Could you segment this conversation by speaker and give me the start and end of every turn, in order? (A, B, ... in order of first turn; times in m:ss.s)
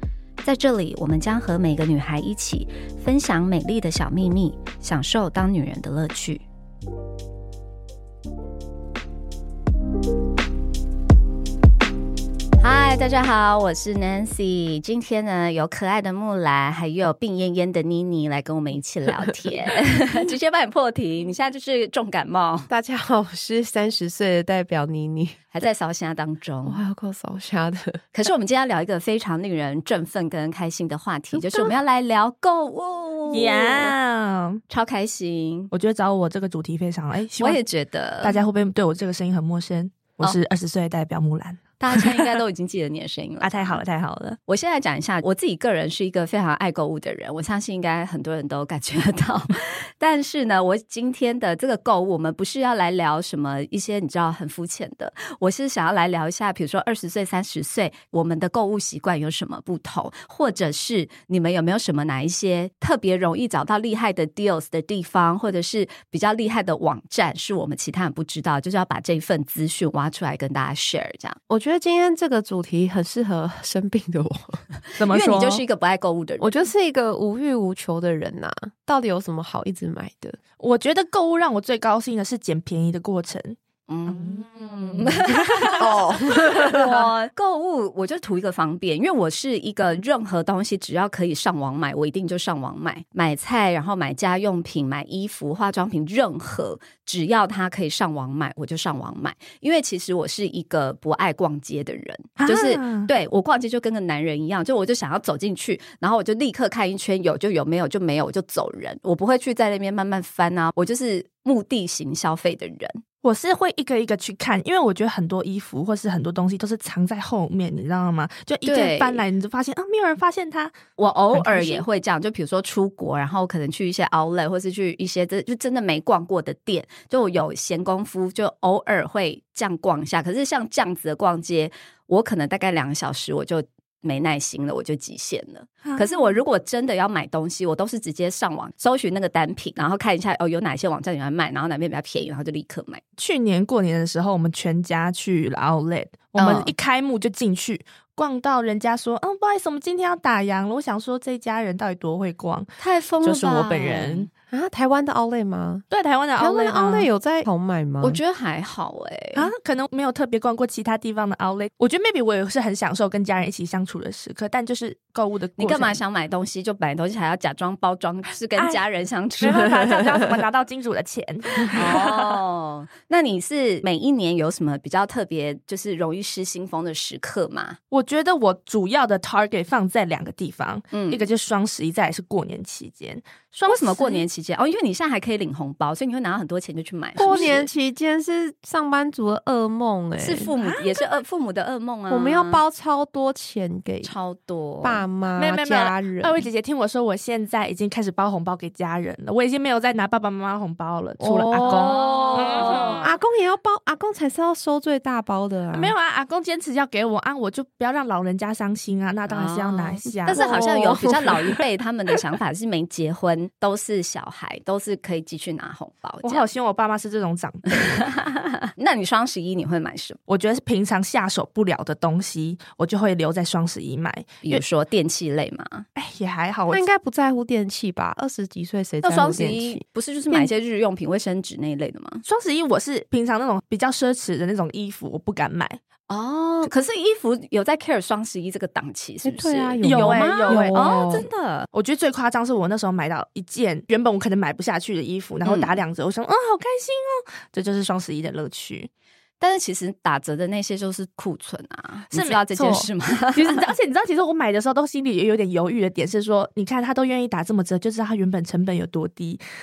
0:00.4-0:06.4 A
0:12.6-0:22.7 A
0:22.7-0:25.4 B
0:25.5-0:26.8 A
0:26.7-0:28.1 B
0:28.1-0:34.0 A
0:33.3-0:34.6 C
0:34.7-0:35.7 A
0:35.7-0:37.6 C
0:37.4-0:38.4 A
0:38.2-0:42.4 C
0:41.8-0:43.8 A
0:43.4-0:44.4 C
0:44.5-1:11.4 A
1:11.5-1:14.6 B
1:14.9-1:16.7 A
1:15.0-1:15.6 C
1:16.4-1:20.4 B
1:20.6-1:26.0 C
1:23.9-1:26.1 A
1:25.8-1:27.0 B
1:26.5-1:26.8 C
1:26.6-1:53.0 A
1:42.4-1:43.1 C
1:53.2-2:00.8 C
1:58.6-1:59.2 A
2:01.0-2:23.0 A
2:01.3-2:01.8 C
2:15.8-2:16.4 C
2:23.2-2:32.7 C
2:26.4-2:26.7 A
2:32.8-2:34.3 A
2:33.2-2:34.3 C
2:34.5-2:35.8 B
2:35.9-2:37.1 C
2:36.4-2:38.2 B
2:38.0-2:39.5 A
2:39.4-2:46.0 C
2:45.6-2:49.9 A
2:49.4-2:52.4 C
2:49.4-2:50.3 B
2:51.7-2:57.8 A
2:57.9-3:04.2 C
3:00.9-3:01.2 A
3:03.7-3:07.7 A
3:07.2-3:10.5 B
3:07.2-3:07.6 C
3:10.2-3:12.6 A
3:10.6-3:11.2 C
3:12.1-3:14.1 B
3:14.0-3:15.0 A
3:14.8-3:16.5 B
3:15.4-3:23.0 C
3:21.2-3:25.9 B
3:21.6-3:23.1 A
3:25.7-3:30.9 C
3:29.3-3:36.5 A
3:30.0-3:31.6 B
3:36.2-3:38.1 C
3:37.7-3:40.2 A
3:40.3-3:44.6 C
3:44.4-3:45.8 A
3:46.0-3:46.8 C
3:46.7-3:50.5 B
3:49.0-3:52.2 A
3:52.2-3:55.8 C
3:56.1-4:01.7 A
3:59.2-4:01.3 B
3:59.8-4:08.9 C
4:05.4-4:05.8 A
4:09.4-4:13.7 A
4:12.1-4:19.4 C